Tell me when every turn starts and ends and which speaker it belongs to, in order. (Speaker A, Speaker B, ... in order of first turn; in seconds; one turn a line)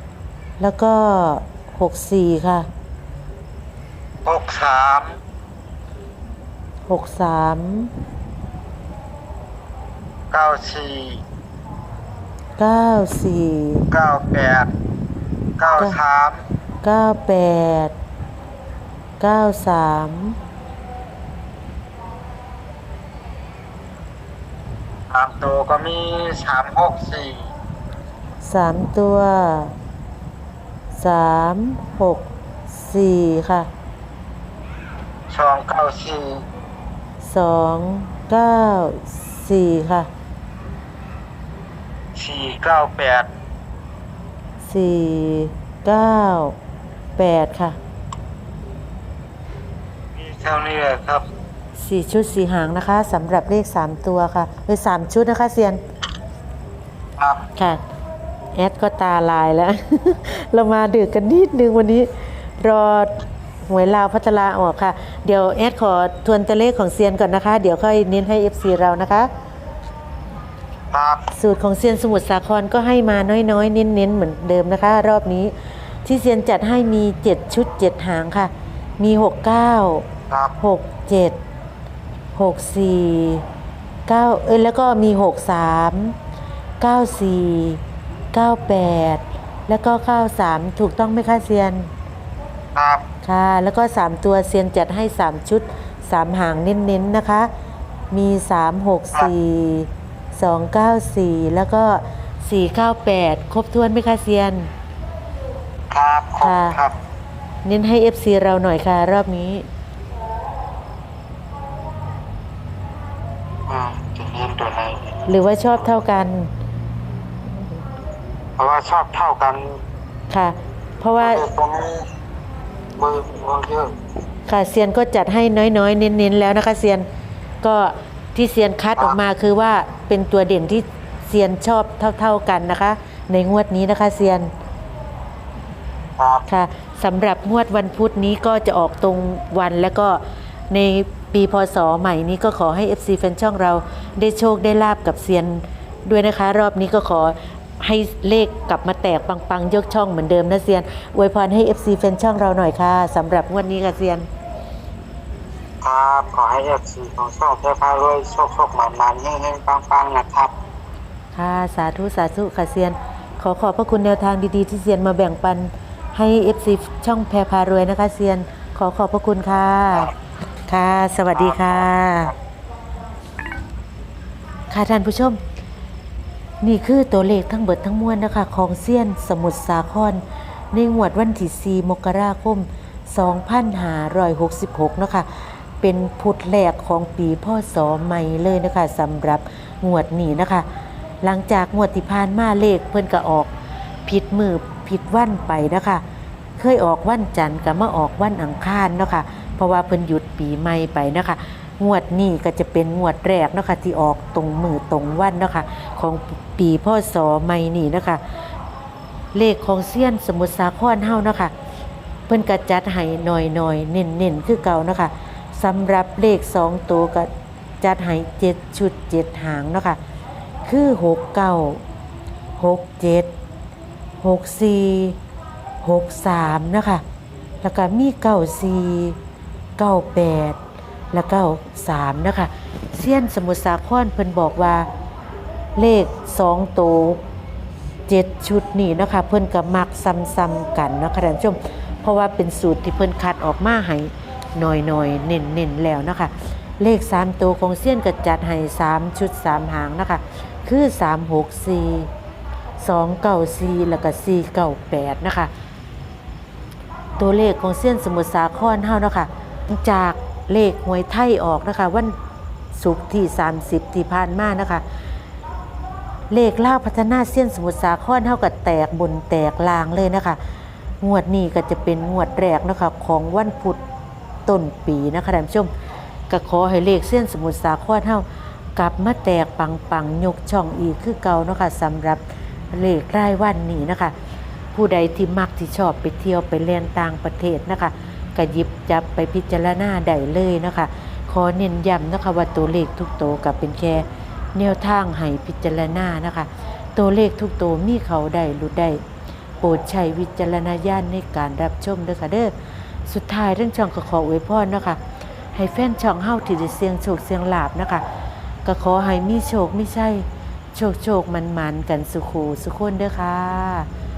Speaker A: 0.6-2.7
Speaker B: 4.2-5.2
Speaker A: 6.9-7.9
Speaker B: 10.3-11.2
Speaker A: 12.6-13.8
Speaker B: 13.9-14.7
Speaker B: 15.6-16.4
Speaker A: 16.8-17.9
Speaker A: 19.2-20.4
Speaker B: 25.1-27.5
Speaker A: 28.4-29.7
Speaker A: 30.9-33.7
Speaker B: 35.3-36.5
Speaker A: 37.2-40.1
Speaker B: 42.1-43.3
Speaker A: 44.6-46.5
Speaker A: 47.2-47.8
Speaker B: 50.1-51.2
Speaker A: 51.8-55.8
Speaker B: 57.2-57.5
Speaker A: 57.5-57.8
Speaker A: 58.5-69.3
Speaker B: 70.9-71.2
Speaker A: 71.3-75.5
Speaker A: 76.0-80.0
Speaker B: 80.3-80.5
Speaker A: 80.6-81.4
Speaker A: 82.3-83.4
Speaker A: 84.1-86.2
Speaker A: 86.8-87.8
Speaker A: 88.3-91.9
Speaker B: 92.7-93.0
Speaker A: 93.2-97.5
Speaker A: 98.1-104.7
Speaker B: 105.9-106.9
Speaker A: 106.4-106.8
Speaker A: 107.6-109.7
Speaker B: 113.7-115.2
Speaker A: 115.3-116.5
Speaker B: 118.6-119.8
Speaker A: 120.3-121.4
Speaker B: 121.2-122.1
Speaker B: 123.0-123.9
Speaker A: 124.5-127.0
Speaker A: 127.6-134.5
Speaker B: 136.2-136.4
Speaker A: 136.5-154.3
Speaker B: 155.8-160.5
Speaker A: 161.3-170.1
Speaker A: 170.7-172.3
Speaker B: 171.3-171.8
Speaker A: 174.7-175.4
Speaker A: 176.6-190.7
Speaker A: 191.2-193.5
Speaker A: 194.1-196.0
Speaker A: 196.6-208.2
Speaker A: 209.3-211.5
Speaker A: 212.3-217.3
Speaker A: 217.8-220.0
Speaker A: 220.7-221.8
Speaker A: 222.6-223.3
Speaker A: 224.2-225.2
Speaker A: 225.8-227.0
Speaker A: 227.6-229.2
Speaker A: 229.8-230.6
Speaker A: 231.1-234.9
Speaker A: 235.8-237.2
Speaker A: 238.1-252.1
Speaker A: 252.8-255.5
Speaker A: 257.2-262.1
Speaker A: 262.7-264.8
Speaker A: 266.3-270.4
Speaker A: 271.0-273.8
Speaker A: 274.4-275.7
Speaker A: 276.3-278.2
Speaker A: 278.8-284.1
Speaker A: 284.7-299.0
Speaker A: 299.6-302.5
Speaker A: 303.1-305.0
Speaker A: 305.5-308.0
Speaker A: 308.6-313.9